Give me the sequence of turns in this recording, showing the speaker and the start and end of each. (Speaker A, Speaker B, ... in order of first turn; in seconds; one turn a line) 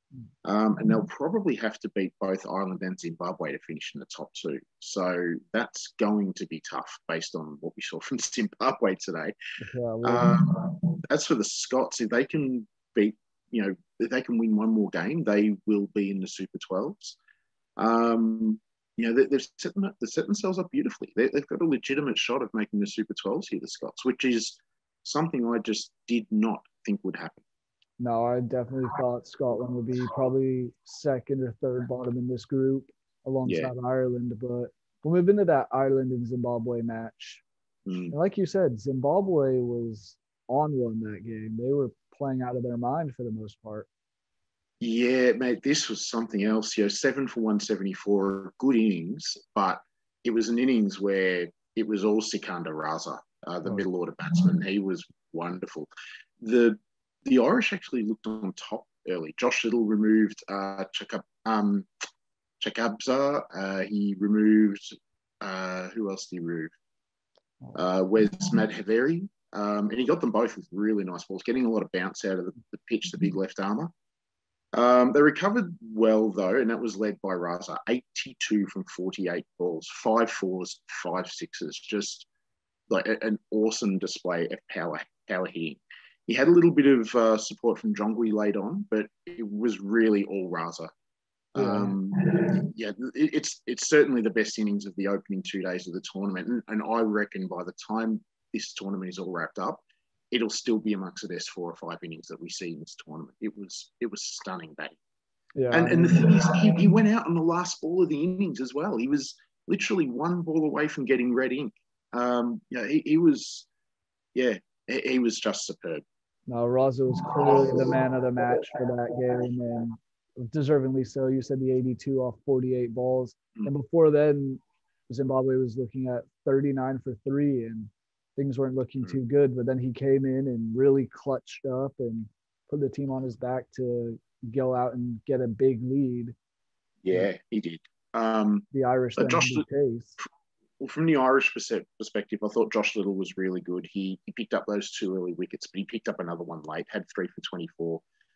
Speaker A: 0.4-9.3
Speaker B: 9.6-10.4
Speaker A: 10.0-17.2
Speaker A: 17.8-27.4
Speaker B: 28.0-37.4
Speaker A: 33.5-33.7
Speaker A: 37.9-38.1
Speaker B: 38.1-43.9
Speaker A: 44.8-55.9
Speaker A: 56.4-61.9
Speaker A: 62.6-66.7
Speaker A: 67.7-73.9
Speaker A: 74.7-82.3
Speaker A: 82.9-90.9
Speaker A: 91.5-105.0
Speaker B: 91.6-92.5
Speaker B: 105.5-106.7
Speaker A: 105.7-113.7
Speaker A: 114.3-116.0
Speaker B: 116.5-136.3
Speaker A: 117.3-118.0
Speaker A: 137.0-138.7
Speaker B: 138.7-140.2
Speaker A: 139.2-139.6
Speaker A: 140.8-148.0